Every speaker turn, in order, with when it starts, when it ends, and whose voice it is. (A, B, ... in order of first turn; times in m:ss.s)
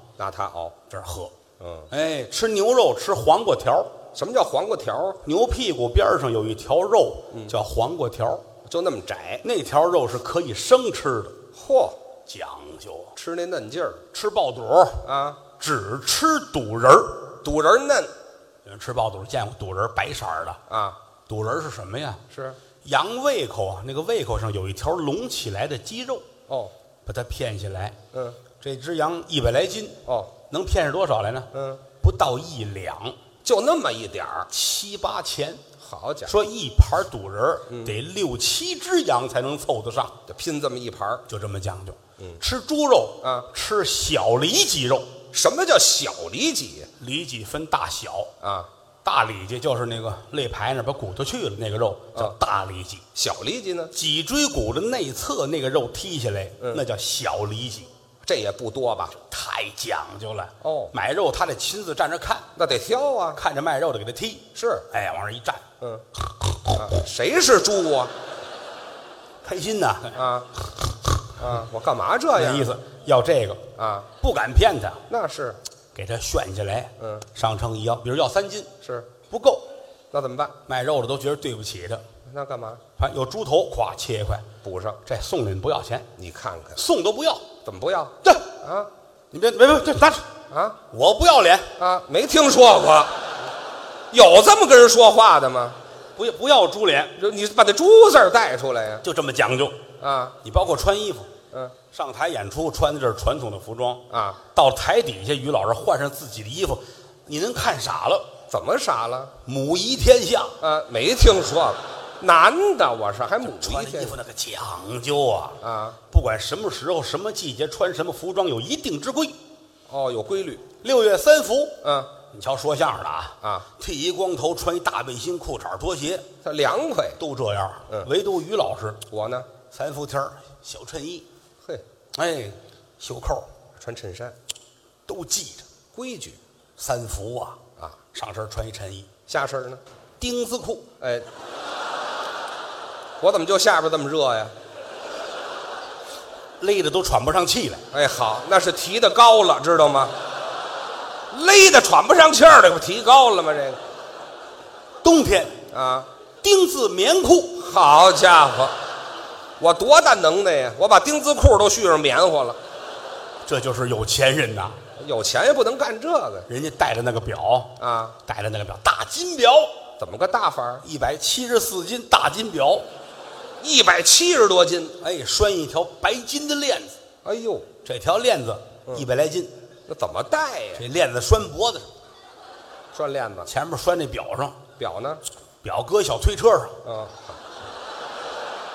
0:00.2-0:00.8 A
0:00.9-0:01.3 B
0:01.6-0:01.9 A
0:01.9-0:03.9 B
0:04.1-0:05.2 A
0:05.2-0:08.4 B
0:08.6-0:09.4 A
0:09.4-0:11.4 B
0:11.5-0:12.0 A
0:12.3-0:13.1 B
0:13.1-0:14.0 A
0:14.1-0:15.0 B
0:15.0-0:15.4 A
0:15.6-0:17.3 B
0:17.4-0:18.1 A
0:18.6-0:20.6 B
0:20.7-0:21.0 A
0:21.3-0:22.2 B
0:22.3-0:22.6 A
0:22.8-0:26.2 B
0:27.0-0:28.0 B
0:28.1-0:28.4 A
0:28.6-0:33.2 B
0:31.5-0:31.8 A
0:33.4-0:34.5 A
0:34.5-0:35.6 B
0:35.8-0:36.3 A
0:36.2-0:40.1 B
0:37.7-0:38.0 A
0:40.3-0:41.2 A
0:41.3-0:45.1 B
0:43.2-0:43.5 A
0:45.3-0:46.9 A
0:47.0-0:48.3 B
0:48.4-0:48.7 A
0:49.0-0:53.0 B
0:53.1-0:53.9 A
0:53.9-0:57.9 B
0:58.2-0:59.2 A
0:59.2-1:02.5 B
1:00.6-1:00.9 A
1:02.6-1:03.4 A
1:03.4-1:05.6 B
1:04.5-1:04.8 A
1:06.5-1:06.7 B
1:06.7-1:08.1 A
1:09.4-1:10.2 B
1:10.1-1:10.5 A
1:11.4-1:12.7 A
1:12.4-1:13.6 B
1:13.8-1:14.1 A
1:14.2-1:15.0 B
1:15.1-1:15.6 A
1:15.9-1:18.7 B
1:17.0-1:17.2 A
1:18.8-1:19.1 A
1:19.3-1:19.6 B
1:20.1-1:20.5 A
1:20.7-1:22.0 B
1:22.2-1:22.8 A
1:23.0-1:24.4 B
1:24.6-1:25.0 A
1:25.0-1:26.1 B
1:26.2-1:26.8 A
1:26.8-1:27.4 B
1:27.6-1:28.9 A
1:29.3-1:30.2 B
1:30.5-1:30.8 A
1:30.9-1:31.7 B
1:31.8-1:33.1 A
1:34.1-1:35.8 A
1:36.2-1:37.1 B
1:37.2-1:39.0 A
1:39.0-1:39.8 B
1:40.0-1:40.3 A
1:40.4-1:41.3 B
1:41.9-1:48.3 B
1:44.1-1:44.4 A
1:48.5-1:49.3 A
1:49.4-1:50.5 B
1:50.6-1:54.1 A
1:53.4-1:55.6 B
1:55.6-1:56.0 A
1:56.1-1:59.4 B
1:59.9-2:00.6 A
2:00.8-2:06.3 B
2:01.8-2:02.1 A
2:06.4-2:07.2 A
2:07.2-2:09.0 B
2:09.1-2:09.5 A
2:09.7-2:11.2 B
2:12.1-2:13.5 B
2:13.8-2:14.3 A
2:15.1-2:15.6 B
2:15.9-2:16.4 A
2:16.8-2:17.6 B
2:18.1-2:19.1 B
2:19.3-2:19.8 A
2:20.2-2:20.9 B
2:21.0-2:21.2 A
2:23.2-2:24.5 A
2:26.6-2:27.8 B
2:27.9-2:30.1 A
2:31.3-2:33.8 A
2:35.0-2:35.6 B
2:35.7-2:36.1 A
2:36.4-2:37.6 B
2:37.6-2:38.7 A
2:39.6-2:42.6 A
2:43.4-2:44.8 B
2:45.0-2:46.4 A
2:46.5-2:49.7 B
2:47.8-2:48.2 A
2:50.0-2:50.8 A
2:50.8-2:52.8 B
2:53.6-2:55.0 A
2:55.0-2:57.0 B
2:57.2-2:57.7 A
2:57.8-2:59.5 B
2:59.9-3:00.8 A
3:00.8-3:01.9 B
3:02.9-3:03.5 A
3:03.5-3:04.6 B
3:04.8-3:05.2 A
3:05.6-3:06.8 B
3:06.8-3:07.4 A